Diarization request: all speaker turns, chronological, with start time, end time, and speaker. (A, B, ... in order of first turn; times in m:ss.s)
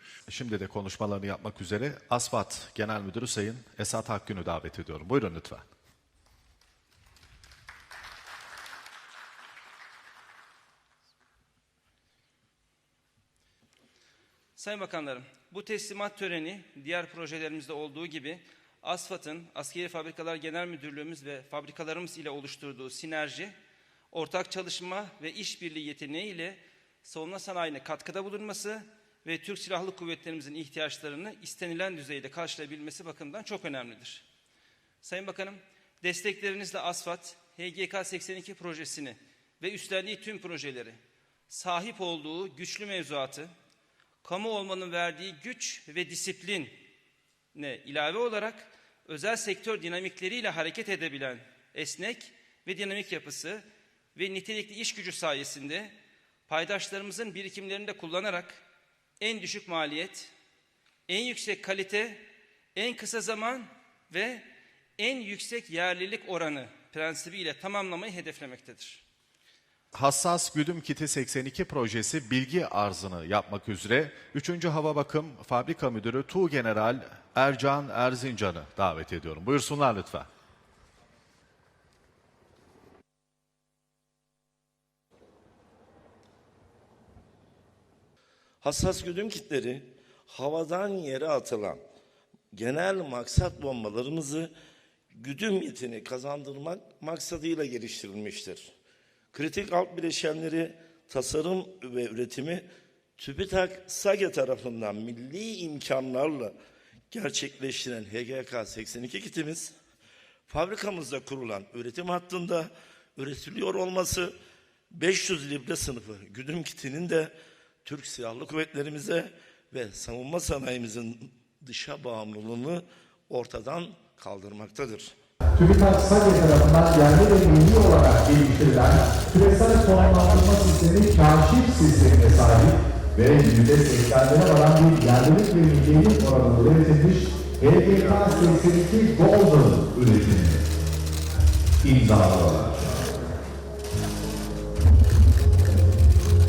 0:00.3-0:05.7 A
0:14.6-0:23.6 B
0:24.1-0:34.2 B
0:35.0-0:43.5 B
0:44.2-0:46.8 B
0:47.5-0:53.6 B
0:54.1-0:55.9 B
0:56.5-0:58.6 B
0:59.2-1:00.3 B
1:01.1-1:04.5 B
1:05.0-1:09.0 B
1:09.9-1:20.3 A
1:28.6-1:31.8 C
1:32.5-1:34.5 C
1:35.1-1:38.7 C
1:39.3-1:46.6 C
1:47.1-1:49.8 C
1:50.5-1:54.4 C
1:54.9-2:05.1 C
2:05.6-2:20.4 D
2:20.0-2:20.6 A
2:21.8-2:23.0 A